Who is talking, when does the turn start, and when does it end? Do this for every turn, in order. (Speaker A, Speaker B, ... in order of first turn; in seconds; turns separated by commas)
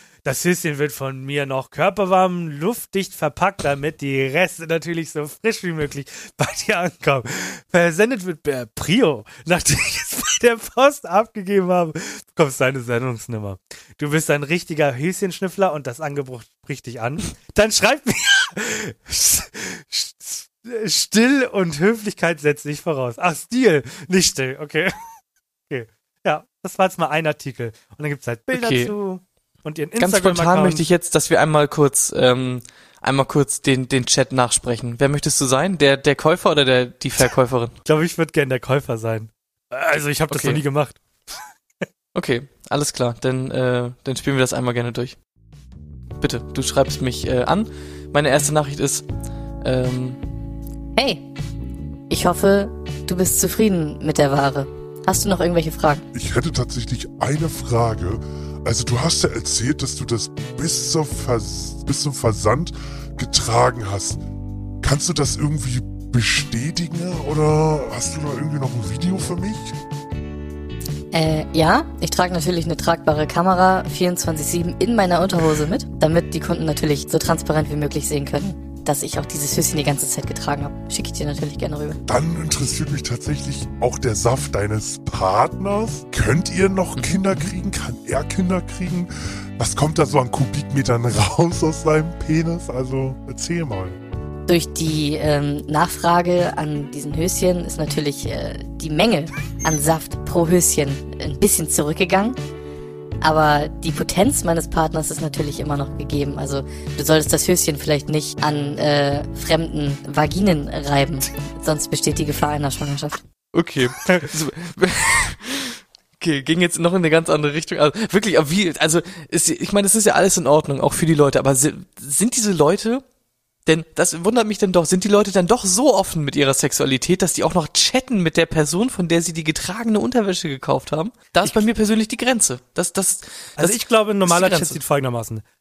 Speaker A: 0.2-24.9, Speaker A: 25.7-30.9, Speaker B: 28.5-28.9, Speaker B: 30.0-37.8, Speaker A: 37.9-41.0, Speaker B: 40.3-40.6, Speaker B: 42.1-45.2, Speaker B: 46.2-49.0, Speaker B: 49.6-50.2, Speaker C: 51.0-51.2, Speaker C: 52.1-56.0, Speaker D: 56.1-64.2, Speaker D: 64.8-69.7, Speaker C: 71.1-82.0, Speaker D: 82.1-94.0, Speaker C: 94.5-102.4, Speaker C: 103.2-113.2, Speaker B: 113.5-123.0, Speaker B: 123.7-134.8, Speaker A: 133.6-135.4